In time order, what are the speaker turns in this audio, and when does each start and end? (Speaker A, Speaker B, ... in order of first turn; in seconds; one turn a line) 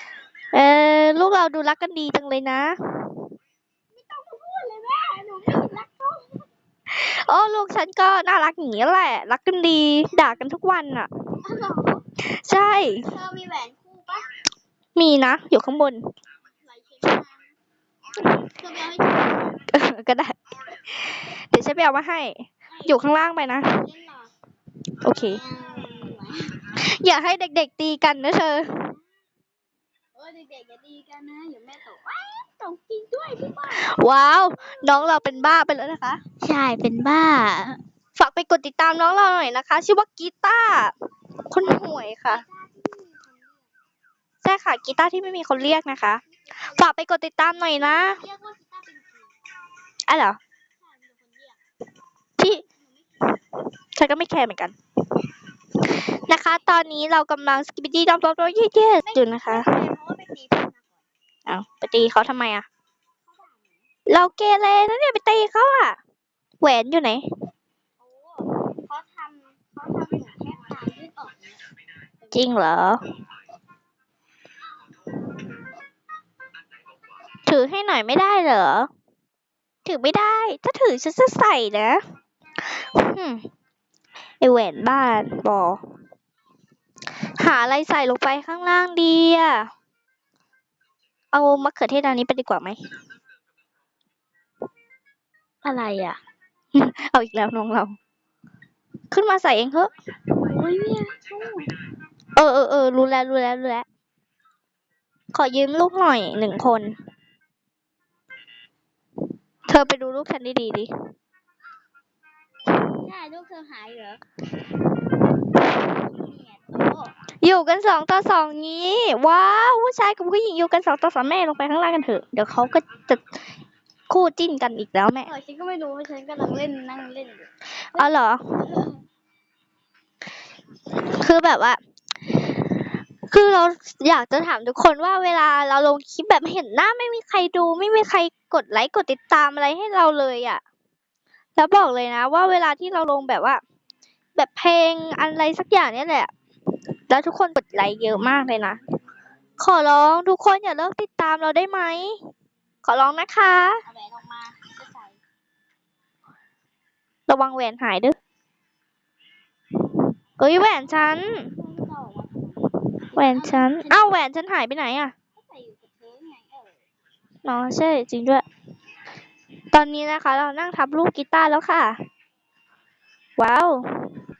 Speaker A: 0.5-2.7
Speaker B: 3.9-6.4
Speaker A: 6.9-11.1
Speaker B: 11.4-12.1
Speaker A: 12.2-13.1
Speaker B: 13.0-14.3
Speaker A: 14.9-16.0
Speaker B: 16.6-17.5
Speaker B: 18.3-19.6
Speaker A: 19.6-20.4
Speaker A: 20.9-23.8
Speaker B: 22.7-23.1
Speaker B: 23.7-24.3
Speaker A: 25.0-25.4
Speaker B: 25.1-26.7
Speaker A: 26.7-28.9
Speaker B: 30.1-34.0
Speaker A: 33.7-36.2
Speaker B: 34.6-35.7
Speaker B: 36.4-37.8
Speaker A: 38.1-40.9
Speaker A: 41.5-42.4
Speaker B: 42.3-43.7
Speaker A: 44.4-48.2
Speaker B: 46.4-46.9
Speaker B: 47.6-49.3
Speaker A: 50.1-50.4
Speaker B: 50.8-51.6
Speaker A: 52.4-52.6
Speaker B: 52.4-53.4
Speaker A: 53.9-54.7
Speaker A: 56.0-59.7
Speaker B: 56.3-56.6
Speaker B: 59.0-61.0
Speaker A: 61.5-62.6
Speaker B: 63.3-63.9
Speaker A: 64.1-66.0
Speaker A: 66.6-67.2
Speaker B: 68.0-71.6
Speaker B: 72.2-72.5
Speaker A: 72.3-73.0
Speaker A: 77.5-78.9
Speaker A: 79.8-82.0
Speaker A: 82.7-83.4
Speaker A: 84.4-85.8
Speaker A: 87.3-89.7
Speaker A: 91.3-92.8
Speaker B: 95.6-96.2
Speaker A: 96.7-98.0
Speaker A: 99.1-99.9
Speaker B: 100.4-101.7
Speaker A: 102.3-103.8
Speaker A: 105.3-107.0
Speaker A: 109.7-110.9
Speaker B: 112.8-114.2
Speaker B: 115.8-117.2
Speaker A: 117.4-123.2
Speaker A: 124.1-125.3
Speaker B: 125.2-128.1
Speaker A: 127.9-128.4
Speaker B: 128.6-129.0
Speaker A: 131.1-131.8
Speaker A: 132.3-140.6
Speaker A: 141.6-143.6
Speaker A: 144.3-146.3
Speaker A: 147.1-148.8
Speaker A: 149.6-152.2
Speaker A: 152.8-153.8
Speaker B: 153.8-155.2
Speaker A: 157.3-158.2
Speaker A: 160.4-161.5
Speaker B: 160.6-164.1
Speaker A: 163.2-165.1
Speaker B: 165.3-166.8
Speaker A: 167.4-168.4
Speaker A: 169.7-172.0
Speaker A: 173.4-173.8